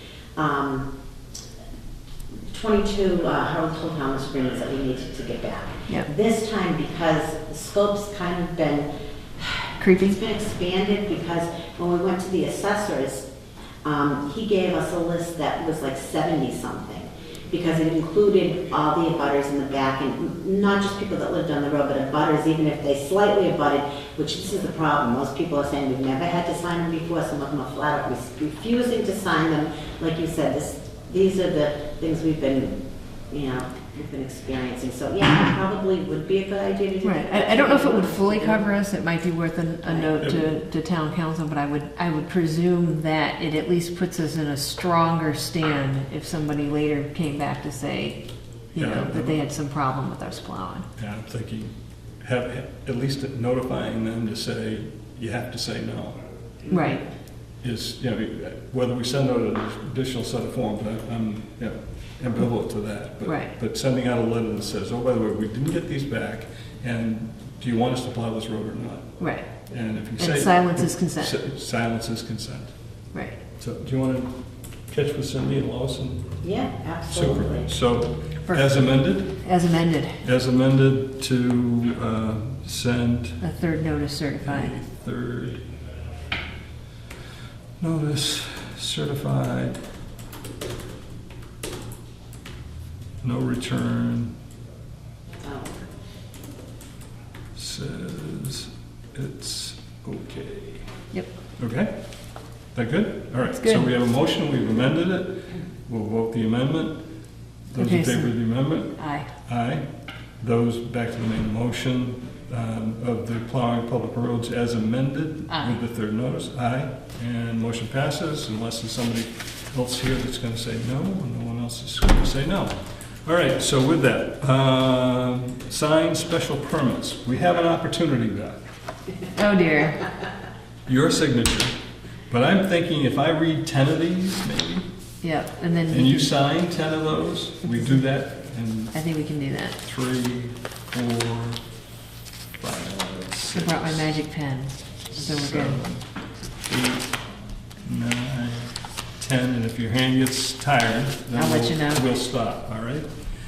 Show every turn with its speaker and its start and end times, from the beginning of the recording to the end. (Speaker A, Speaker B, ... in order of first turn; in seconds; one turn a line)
Speaker A: 0.4-0.9
Speaker A: 2.5-13.3
Speaker B: 9.8-10.2
Speaker A: 13.8-38.7
Speaker B: 37.0-48.2
Speaker A: 39.8-40.1
Speaker C: 40.2-40.5
Speaker B: 48.7-50.9
Speaker C: 48.8-49.4
Speaker C: 51.0-56.2
Speaker B: 56.7-57.0
Speaker C: 57.6-72.7
Speaker B: 63.2-63.6
Speaker B: 69.2-69.5
Speaker B: 70.2-71.4
Speaker B: 73.1-73.4
Speaker C: 73.6-74.3
Speaker C: 74.9-76.4
Speaker A: 76.4-77.7
Speaker C: 77.1-79.4
Speaker B: 78.5-80.2
Speaker C: 80.2-83.4
Speaker B: 83.4-84.8
Speaker C: 84.4-85.6
Speaker C: 87.8-89.8
Speaker C: 93.2-94.3
Speaker A: 95.4-95.8
Speaker C: 97.5-100.9
Speaker C: 101.6-101.9
Speaker C: 102.7-107.0
Speaker B: 103.5-103.9
Speaker C: 107.7-109.8
Speaker B: 107.8-108.4
Speaker B: 109.0-109.3
Speaker C: 110.4-128.6
Speaker B: 115.5-115.8
Speaker B: 129.3-130.1
Speaker C: 130.9-131.8
Speaker C: 132.3-134.9
Speaker B: 135.2-136.3
Speaker C: 135.9-138.9
Speaker B: 138.9-139.8
Speaker C: 139.8-141.6
Speaker C: 142.6-144.1
Speaker B: 143.5-145.8
Speaker C: 145.1-146.1
Speaker C: 146.7-147.1
Speaker C: 147.8-153.1
Speaker B: 151.3-152.1